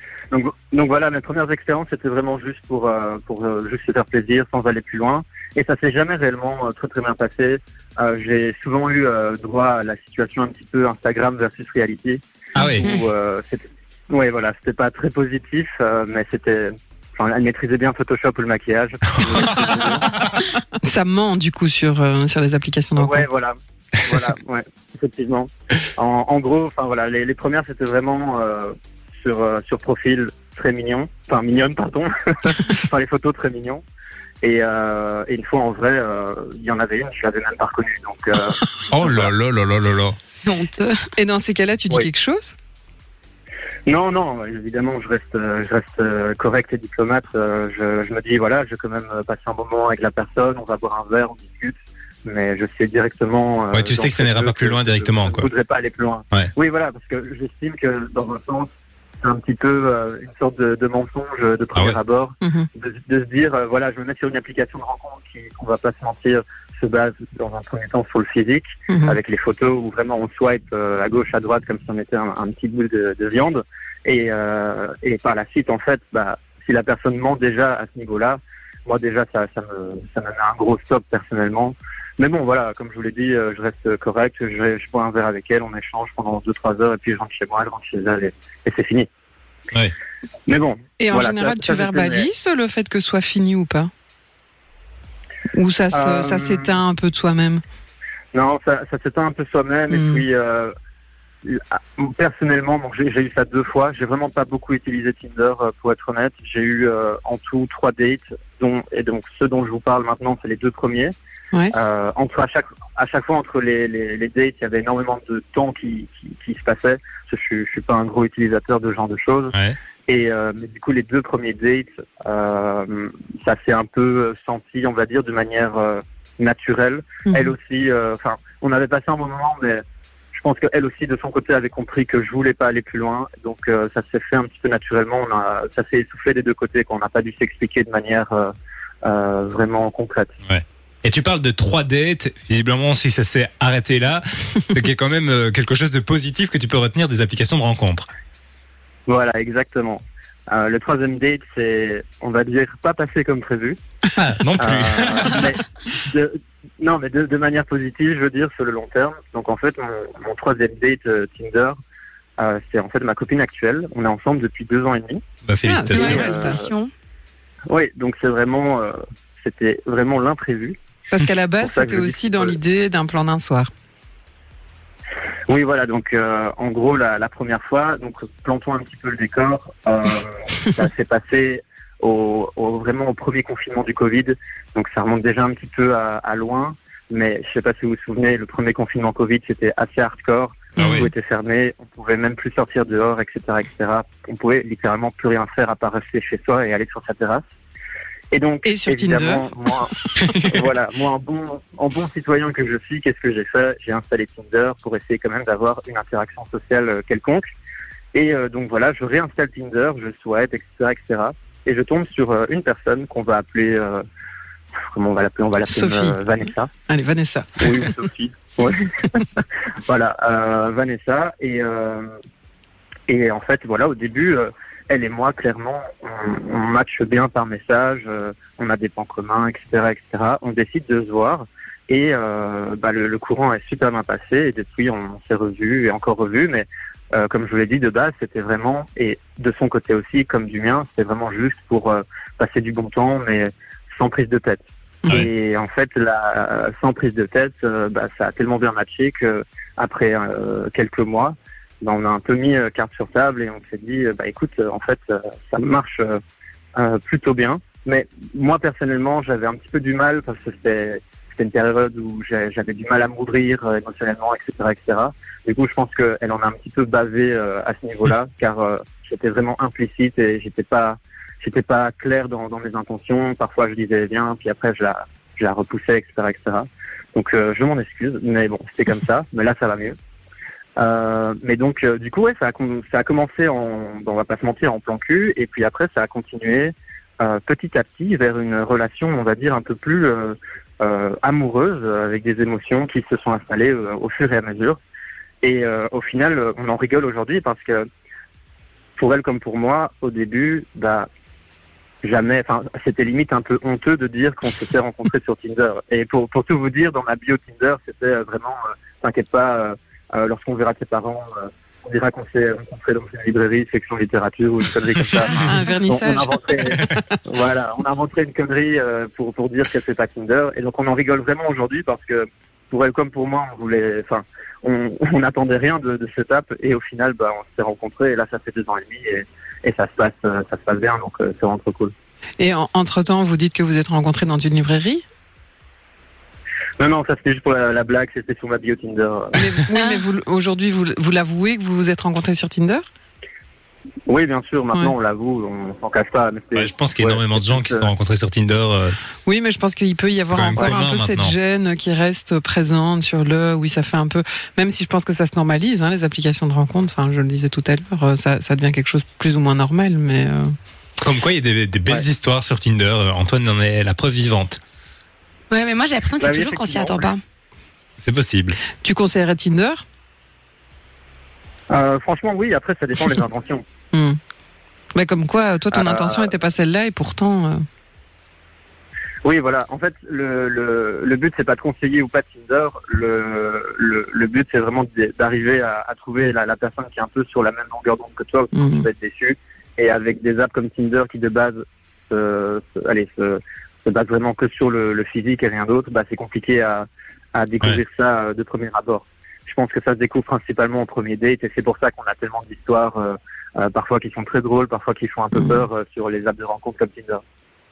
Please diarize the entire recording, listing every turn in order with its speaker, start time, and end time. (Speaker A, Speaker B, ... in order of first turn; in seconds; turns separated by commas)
Speaker A: 0.3-20.1, Speaker B: 12.6-12.9, Speaker C: 20.8-23.2, Speaker A: 23.0-33.8, Speaker A: 34.4-39.3, Speaker B: 38.9-40.2, Speaker D: 40.3-41.1, Speaker C: 41.1-42.5, Speaker A: 43.9-58.7, Speaker B: 53.7-55.5, Speaker A: 59.2-89.1, Speaker C: 62.4-62.7, Speaker C: 68.9-69.2, Speaker A: 90.5-92.3, Speaker C: 91.0-93.9, Speaker C: 95.5-97.6, Speaker A: 95.9-96.7, Speaker A: 98.3-100.7, Speaker C: 99.9-100.2, Speaker A: 101.4-111.1, Speaker A: 111.7-119.6, Speaker A: 120.1-138.5, Speaker C: 127.3-127.5, Speaker A: 139.0-140.3, Speaker B: 140.4-148.1, Speaker A: 149.1-153.8, Speaker B: 154.2-155.5, Speaker A: 154.6-161.8, Speaker A: 162.4-165.2, Speaker B: 165.4-166.2, Speaker C: 165.7-166.6, Speaker D: 165.9-166.9, Speaker A: 166.0-166.7, Speaker A: 167.7-170.8, Speaker C: 171.1-173.7, Speaker A: 171.6-172.6, Speaker A: 175.5-197.4, Speaker B: 190.8-191.1, Speaker C: 190.8-191.1, Speaker A: 198.3-199.9, Speaker C: 198.7-199.5, Speaker A: 200.5-207.5, Speaker A: 208.1-214.0, Speaker A: 214.9-216.7, Speaker C: 215.7-216.2, Speaker C: 216.9-217.9, Speaker A: 217.6-222.1, Speaker A: 223.1-256.2, Speaker A: 256.8-280.0, Speaker A: 280.8-294.8, Speaker A: 295.4-297.9, Speaker A: 299.0-301.1, Speaker A: 302.0-331.9, Speaker C: 315.3-317.2, Speaker C: 332.4-335.1, Speaker A: 336.8-339.6, Speaker C: 339.4-342.8, Speaker A: 344.1-347.9, Speaker B: 346.6-349.0, Speaker C: 349.2-360.5, Speaker B: 350.3-351.3, Speaker B: 361.0-364.6, Speaker D: 365.5-367.2, Speaker A: 366.2-367.1, Speaker B: 368.0-368.6, Speaker C: 368.8-369.8, Speaker A: 371.7-373.6, Speaker C: 373.9-374.2, Speaker C: 374.9-377.6, Speaker A: 375.7-376.3, Speaker A: 379.2-407.2, Speaker C: 388.6-388.8